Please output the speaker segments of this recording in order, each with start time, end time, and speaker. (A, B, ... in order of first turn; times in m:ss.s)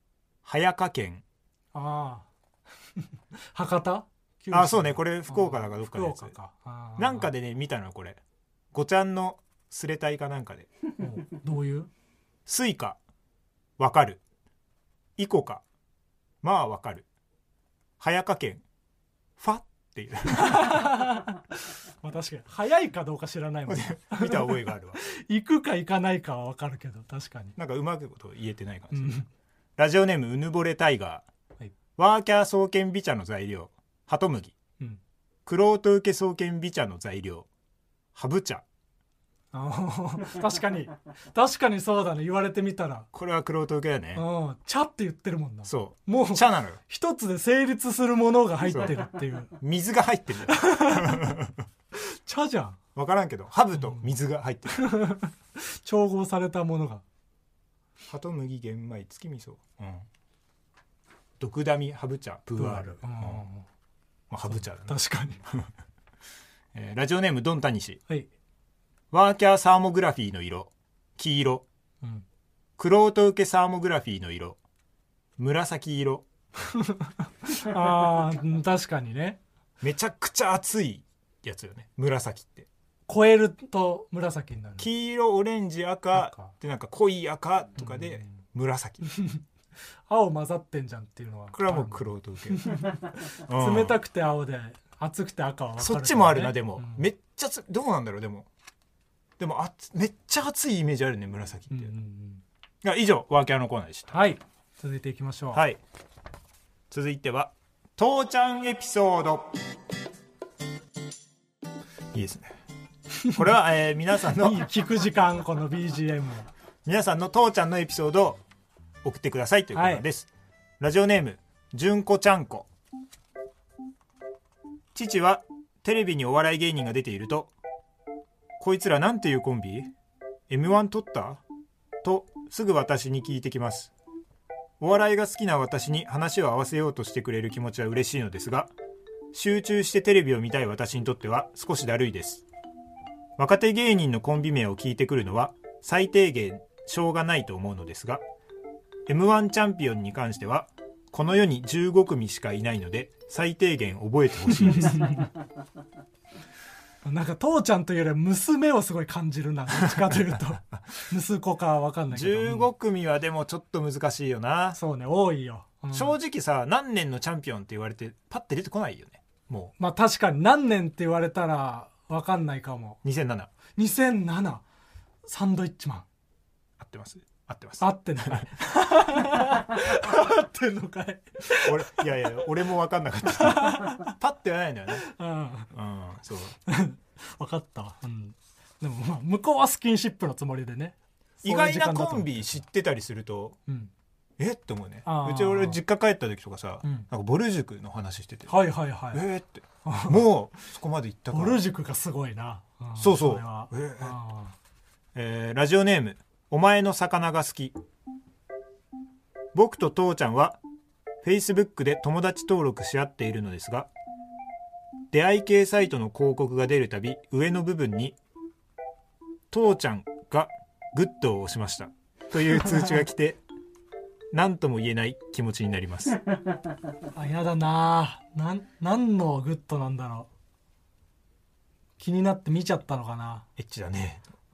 0:00.4-0:01.2 A
0:01.7-0:02.3 B
0:03.5-0:07.3 B
0:04.5-0:06.3 A
0:07.0-0:08.2 A
0:08.7-0:10.7 A
0:11.0-0:11.9 B
0:12.4-0:13.0 A
0:13.8-0:14.2 A
0:15.2-0:15.6 A
0:16.4-0:17.1 A
0:18.0-0:18.6 A
0:19.4-0:20.9 A
0:20.3-0:27.6 B
0:23.7-0:25.0 A
0:27.6-0:29.2 A
0:28.9-0:29.3 B
0:29.8-0:31.2 A
0:32.0-0:34.5 A
0:35.4-0:37.5 A
0:38.1-0:38.6 A
0:39.5-0:43.1 B
0:43.1-0:44.2 A
0:44.1-0:49.5 B
0:45.6-0:46.8 A
0:49.6-0:51.6 A
0:50.5-0:51.3 B
0:51.9-0:52.8 B
0:52.9-0:54.8 A
0:54.7-0:57.0 B
0:58.1-1:00.1 A
1:01.4-1:03.4 A
1:02.6-1:03.6 B
1:04.3-1:05.7 A
1:04.5-1:05.4 B
1:06.7-1:08.0 A
1:09.1-1:11.6 A
1:12.8-1:14.6 A
1:15.4-1:16.2 A
1:16.6-1:19.4 B
1:19.8-1:22.7 A
1:23.1-1:24.9 B
1:24.8-1:29.1 A
1:26.1-1:26.5 B
1:27.8-1:28.2 B
1:29.0-1:29.4 B
1:30.1-1:37.0 B
1:31.5-1:32.9 A
1:33.5-1:34.0 A
1:35.8-1:38.5 A
1:39.4-1:41.9 A
1:41.7-1:42.4 B
1:42.8-1:44.2 A
1:44.1-1:45.6 B
1:45.5-1:45.8 A
1:46.9-1:49.6 A
1:52.1-1:52.6 A
1:53.3-1:54.6 A
1:54.3-1:56.5 B
1:56.8-1:58.4 A
1:59.0-2:00.3 A
1:59.7-2:00.0 B
2:00.8-2:02.7 A
2:04.9-2:07.5 A
2:08.6-2:09.9 A
2:10.5-2:11.4 A
2:12.0-2:13.9 A
2:14.8-2:18.7 A
2:19.3-2:22.4 A
2:23.4-2:28.2 A
2:29.1-2:35.2 A
2:34.7-2:35.2 B
2:37.0-2:42.7 B
2:42.1-2:44.8 A
2:44.7-2:46.2 B
2:45.9-2:49.7 A
2:49.8-2:53.0 B
2:53.0-2:53.5 A
2:53.8-2:54.6 B
2:55.2-2:56.0 B
2:56.8-2:58.5 A
2:57.8-3:02.0 B
3:01.6-3:05.0 A
3:03.4-3:04.1 B
3:04.9-3:05.7 B
3:05.7-3:06.6 A
3:06.6-3:12.6 B
3:11.4-3:13.6 A
3:13.7-3:13.9 B
3:14.4-3:18.5 A
3:15.0-3:15.8 B
3:18.5-3:19.2 B
3:19.1-3:21.6 A
3:19.8-3:20.2 B
3:21.3-3:24.5 B
3:23.0-3:24.2 A
3:25.1-3:27.8 A
3:29.5-3:30.6 A
3:31.2-3:33.9 A
3:35.1-3:38.2 A
3:39.5-3:43.4 A
3:44.3-3:46.2 A
3:47.1-3:50.3 B
3:52.0-3:53.5 B
3:53.6-3:54.2 A